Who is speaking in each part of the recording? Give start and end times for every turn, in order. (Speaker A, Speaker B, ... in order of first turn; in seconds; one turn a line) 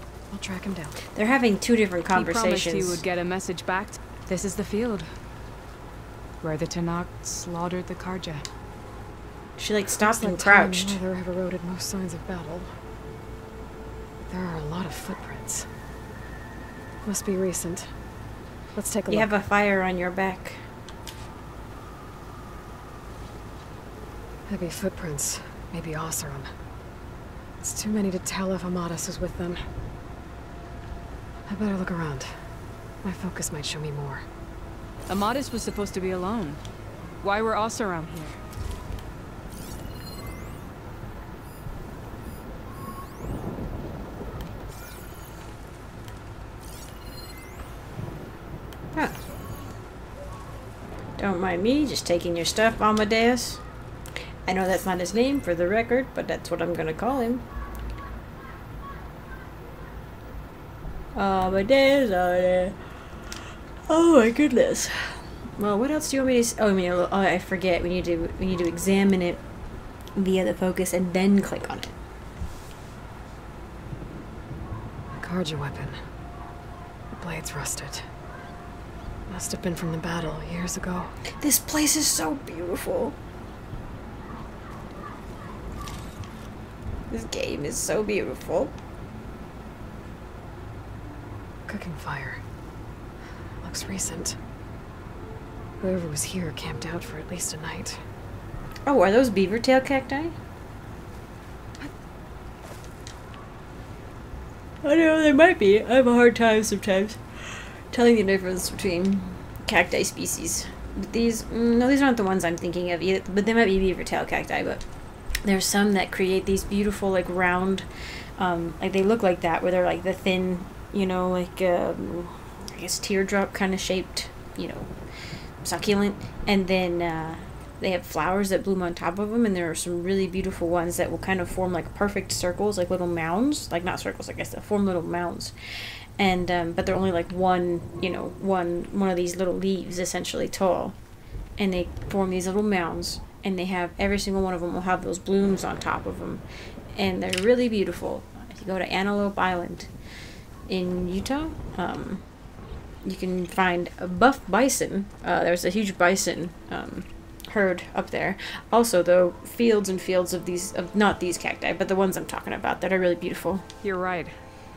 Speaker A: 0.3-1.0
Speaker B: 1.1-3.0
Speaker C: 2.1-5.1
Speaker C: 6.4-8.5
Speaker B: 9.6-11.0
Speaker A: 10.0-12.7
Speaker A: 14.2-15.7
Speaker A: 17.0-17.9
Speaker A: 18.7-19.3
Speaker B: 19.1-20.6
Speaker A: 24.5-26.5
Speaker A: 27.6-29.6
Speaker A: 31.5-32.3
Speaker A: 33.0-34.2
Speaker C: 35.1-36.6
Speaker C: 37.2-38.4
Speaker B: 51.2-53.6
Speaker B: 54.5-57.5
Speaker B: 61.1-62.8
Speaker B: 63.9-69.4
Speaker B: 70.2-72.0
Speaker A: 75.1-76.0
Speaker A: 77.1-78.0
Speaker A: 79.3-81.2
Speaker B: 81.4-83.2
Speaker B: 87.1-88.7
Speaker A: 91.7-92.4
Speaker A: 93.6-94.4
Speaker A: 95.8-98.0
Speaker B: 98.8-100.3
Speaker B: 104.8-107.2
Speaker B: 107.9-114.8
Speaker B: 115.4-117.8
Speaker B: 118.4-124.9
Speaker B: 125.6-135.5
Speaker B: 136.2-141.0
Speaker B: 141.6-146.4
Speaker B: 146.9-149.9
Speaker B: 150.7-152.2
Speaker B: 153.0-163.7
Speaker C: 163.8-164.3